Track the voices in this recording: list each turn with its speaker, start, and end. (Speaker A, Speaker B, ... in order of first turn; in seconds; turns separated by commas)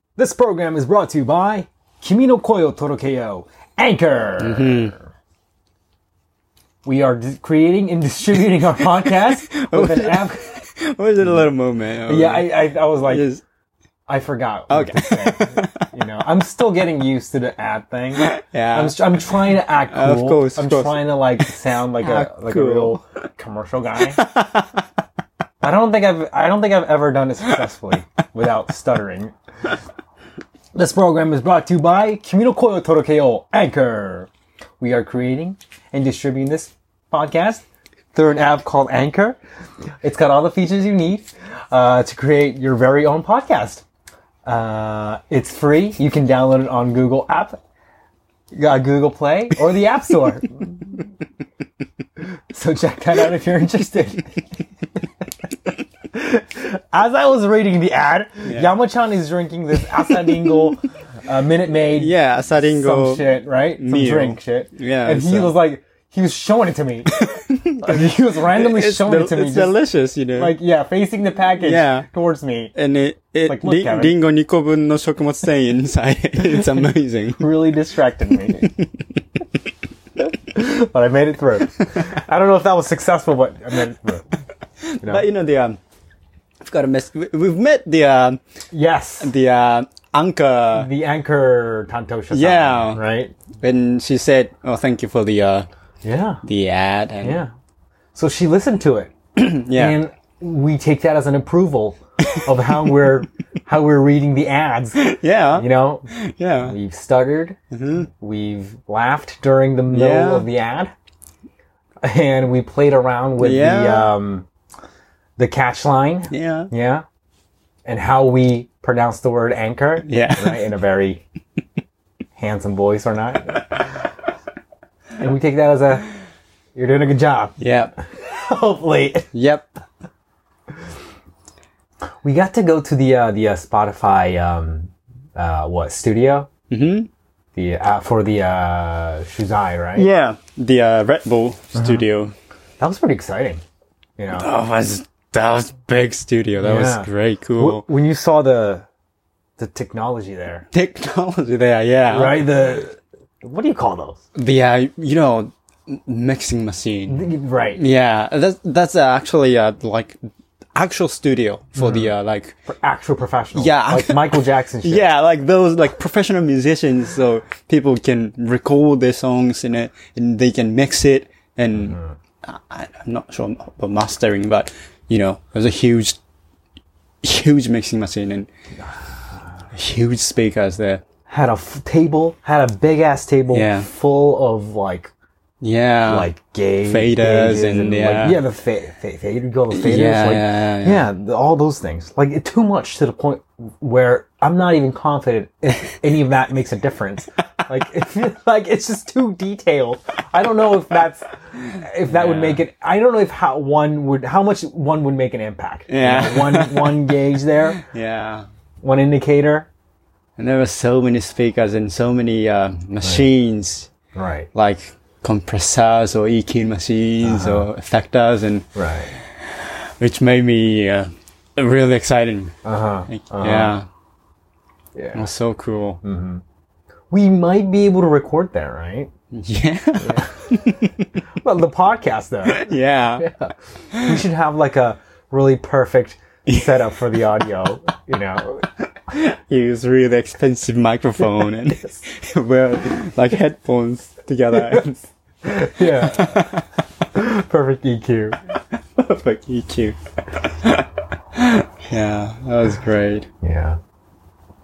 Speaker A: 0.2-5.0, Speaker B: 4.4-4.9, Speaker A: 6.8-10.5, Speaker B: 9.0-13.4, Speaker A: 12.1-13.2, Speaker A: 14.1-24.2, Speaker B: 14.7-15.9, Speaker B: 18.1-23.1, Speaker B: 24.0-24.8, Speaker A: 25.6-29.3, Speaker A: 30.7-34.3, Speaker A: 34.8-39.4, Speaker A: 40.0-43.8, Speaker A: 44.4-47.6, Speaker A: 48.5-51.0, Speaker A: 52.5-54.4, Speaker A: 56.1-67.2, Speaker B: 61.9-65.6, Speaker B: 67.1-70.5, Speaker A: 67.8-69.8, Speaker A: 70.3-72.7, Speaker B: 71.6-72.1, Speaker B: 72.7-77.5, Speaker A: 73.4-74.2, Speaker A: 77.4-78.7, Speaker B: 78.6-79.0, Speaker A: 80.5-84.2, Speaker B: 84.9-85.8, Speaker B: 86.6-88.4, Speaker A: 88.7-89.3, Speaker B: 89.2-90.9, Speaker A: 90.7-93.3, Speaker B: 92.3-93.0, Speaker B: 93.6-95.7, Speaker A: 96.0-96.4, Speaker B: 96.4-97.4, Speaker A: 97.2-97.5, Speaker A: 98.1-99.1, Speaker B: 99.3-100.0, Speaker A: 99.7-105.0, Speaker B: 102.2-102.7, Speaker B: 104.9-106.8, Speaker A: 105.5-106.1, Speaker A: 106.6-110.9, Speaker B: 107.7-108.1, Speaker B: 109.9-110.5, Speaker A: 112.0-114.5, Speaker B: 113.4-114.1, Speaker A: 115.4-117.0, Speaker B: 116.3-116.7, Speaker A: 117.8-121.2, Speaker B: 120.0-120.7, Speaker A: 122.3-123.8, Speaker A: 125.2-126.1, Speaker A: 126.7-129.3, Speaker B: 127.6-127.9, Speaker B: 129.3-129.7, Speaker A: 132.2-136.5, Speaker B: 136.7-137.1, Speaker A: 137.6-140.1, Speaker B: 139.9-142.3, Speaker A: 141.7-142.0, Speaker A: 142.8-143.6, Speaker A: 144.2-144.4, Speaker B: 144.3-147.9, Speaker A: 146.6-148.8, Speaker A: 149.6-150.7, Speaker B: 150.7-152.5, Speaker A: 152.1-154.2, Speaker B: 154.3-160.2, Speaker A: 157.1-157.8, Speaker B: 160.7-162.5, Speaker A: 161.8-162.1, Speaker A: 162.7-165.1, Speaker B: 163.5-176.2, Speaker A: 171.8-172.2, Speaker B: 177.2-178.5, Speaker B: 179.7-181.0, Speaker A: 181.3-185.1, Speaker B: 183.5-183.9, Speaker B: 185.6-186.3, Speaker A: 186.1-207.8, Speaker B: 186.8-188.4, Speaker B: 189.7-191.1, Speaker B: 202.1-202.6, Speaker B: 205.9-207.1, Speaker B: 207.8-208.4, Speaker A: 208.8-209.7, Speaker B: 210.4-213.9, Speaker A: 214.1-214.5, Speaker B: 214.5-222.5, Speaker A: 217.2-217.7, Speaker A: 218.8-219.1, Speaker A: 222.6-223.7, Speaker B: 223.1-223.8, Speaker A: 224.9-225.3, Speaker B: 225.1-226.0, Speaker A: 226.0-226.4, Speaker A: 227.1-229.1, Speaker B: 229.3-231.1, Speaker A: 230.0-230.5, Speaker A: 231.3-232.7, Speaker B: 232.4-233.3, Speaker A: 233.2-238.7, Speaker B: 233.9-234.2, Speaker B: 236.5-236.9, Speaker B: 239.1-245.0, Speaker A: 245.4-246.5, Speaker B: 245.8-246.6, Speaker A: 247.1-248.4, Speaker B: 249.0-253.3, Speaker A: 253.4-253.8